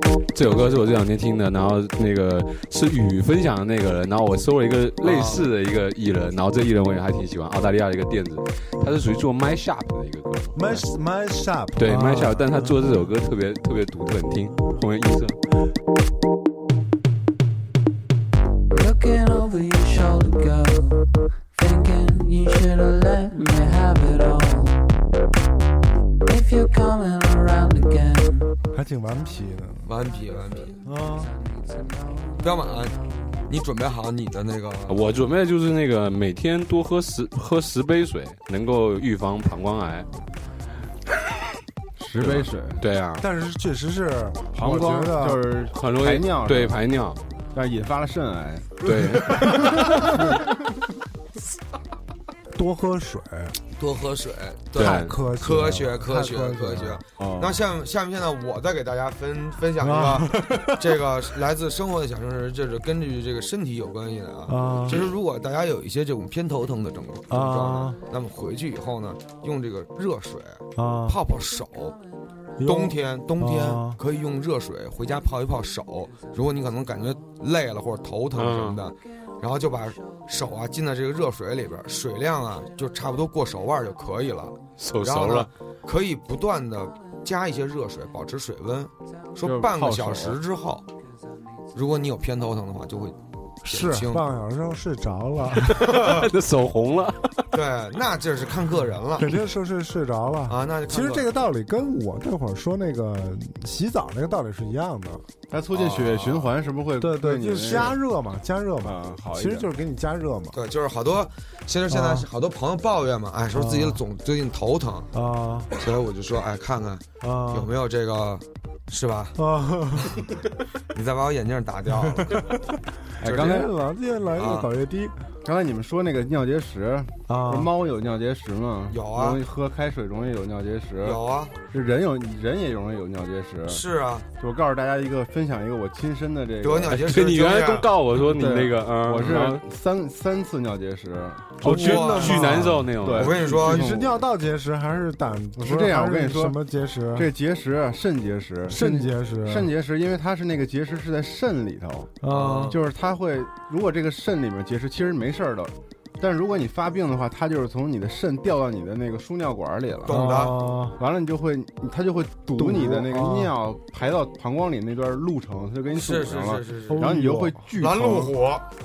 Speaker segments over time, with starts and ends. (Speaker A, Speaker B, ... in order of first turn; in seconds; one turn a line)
Speaker A: 0.3-10.8
Speaker B: 0.4-0.9
Speaker B: 5.0-5.5
Speaker C: 10.5-12.8
Speaker A: 11.8-15.4
Speaker D: 18.7-24.9
Speaker D: 26.2-28.6
Speaker C: 28.7-29.9
Speaker B: 29.8-30.8
Speaker D: 30.6-33.4
Speaker C: 30.8-31.3
Speaker B: 32.4-33.0
Speaker B: 33.5-35.1
Speaker A: 34.9-40.1
Speaker E: 42.0-42.8
Speaker A: 42.2-43.2
Speaker C: 43.2-45.4
Speaker E: 44.5-46.8
Speaker A: 45.7-47.2
Speaker E: 47.5-50.4
Speaker A: 48.8-49.9
Speaker C: 52.5-53.6
Speaker B: 53.8-72.0
Speaker A: 54.8-55.1
Speaker C: 54.8-57.0
Speaker E: 57.2-57.6
Speaker C: 59.8-60.8
Speaker C: 64.5-65.1
Speaker C: 67.3-68.0
Speaker C: 70.8-71.2
Speaker C: 72.6-74.0
Speaker B: 72.6-90.8
Speaker A: 78.3-78.8
Speaker A: 84.8-85.5
Speaker E: 89.4-90.4
Speaker B: 91.7-94.2
Speaker C: 93.6-95.8
Speaker A: 95.7-97.3
Speaker B: 95.7-96.3
Speaker B: 97.5-99.3
Speaker C: 99.2-105.2
Speaker B: 100.5-101.3
Speaker E: 105.5-108.0
Speaker B: 105.7-106.5
Speaker C: 107.0-110.6
Speaker E: 108.8-109.7
Speaker B: 110.5-115.1
Speaker C: 111.9-112.3
Speaker C: 113.5-114.0
Speaker C: 115.1-115.7
Speaker B: 115.7-119.4
Speaker C: 117.2-117.7
Speaker C: 119.3-120.2
Speaker B: 120.9-122.4
Speaker C: 122.2-122.6
Speaker E: 123.2-123.7
Speaker B: 123.2-123.7
Speaker C: 123.2-125.1
Speaker B: 124.3-124.7
Speaker E: 125.4-133.8
Speaker C: 127.3-127.7
Speaker B: 128.9-129.4
Speaker B: 131.0-131.5
Speaker B: 133.7-134.2
Speaker E: 134.4-137.2
Speaker B: 136.6-137.9
Speaker A: 136.9-139.6
Speaker E: 138.1-142.0
Speaker C: 141.6-142.9
Speaker A: 141.6-143.4
Speaker B: 141.7-143.9
Speaker E: 142.9-144.2
Speaker C: 143.6-147.3
Speaker E: 145.6-146.6
Speaker E: 147.1-160.2
Speaker C: 148.7-149.7
Speaker C: 152.2-152.7
Speaker B: 152.3-152.8
Speaker B: 160.0-160.6
Speaker C: 160.1-161.0
Speaker E: 161.0-168.4
Speaker C: 162.6-163.5
Speaker B: 165.9-167.1
Speaker C: 166.9-167.6
Speaker B: 167.8-168.6